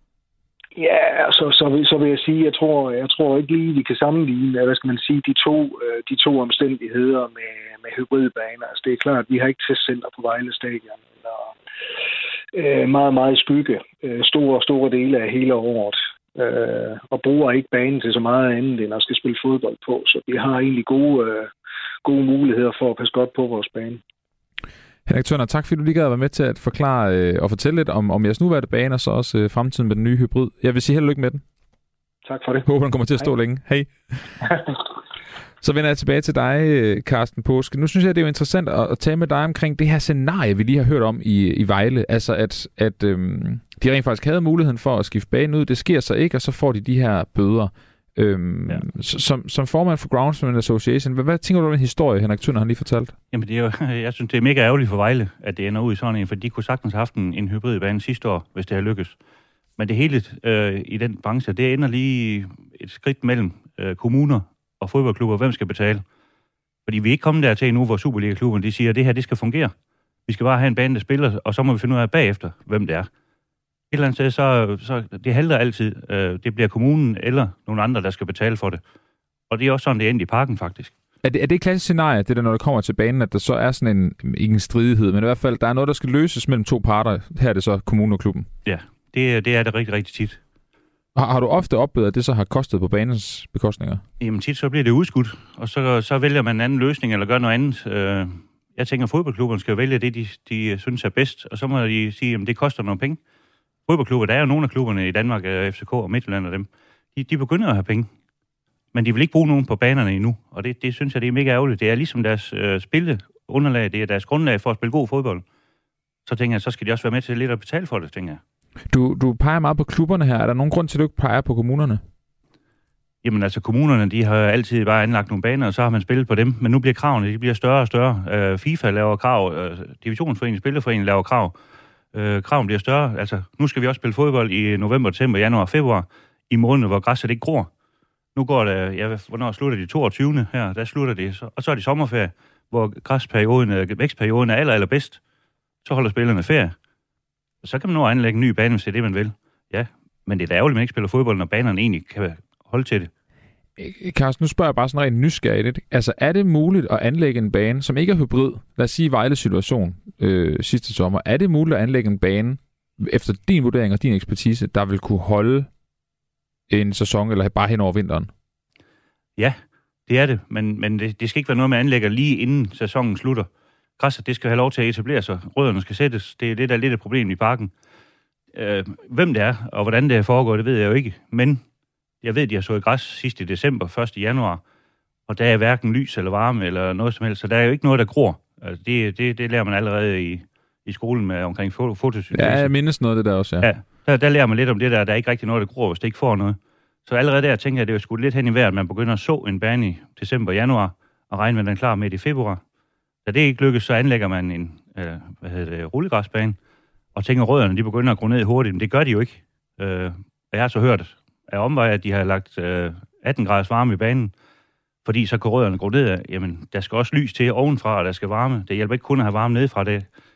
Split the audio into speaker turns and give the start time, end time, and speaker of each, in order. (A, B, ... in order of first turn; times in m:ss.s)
0:00.8-0:11.5 A
0:12.5-0:21.5 A
0:22.0-0:24.0 A
0:25.1-0:31.4 B
0:32.2-0:32.7 A
0:32.6-0:34.4 B
0:35.6-0:53.2 B
0:53.3-0:59.2 C
0:59.8-1:06.0 C
1:06.9-1:09.7 C
1:10.3-1:13.1 C
1:13.9-1:18.8 C
1:19.5-1:20.9 C
1:21.2-1:28.5 B
1:28.6-1:30.4 C
1:31.2-1:34.0 B
1:34.2-1:43.2 C
1:43.9-1:48.1 C
1:48.9-1:55.4 C
1:56.3-1:58.4 C
1:58.9-2:02.0 B
2:03.2-2:11.5 C
2:12.1-2:17.7 C
2:18.4-2:25.2 C
2:25.8-2:26.8 C
2:27.6-2:33.1 C
2:33.8-2:45.7 B
2:46.7-2:48.3 B
2:49.4-2:57.7 C
2:58.5-3:01.6 C
3:02.2-3:04.6 C
3:05.3-3:12.7 C
3:12.3-3:13.7 B
3:13.6-3:22.6 C
3:23.2-3:26.6 C
3:27.2-3:34.3 C
3:35.0-3:40.1 C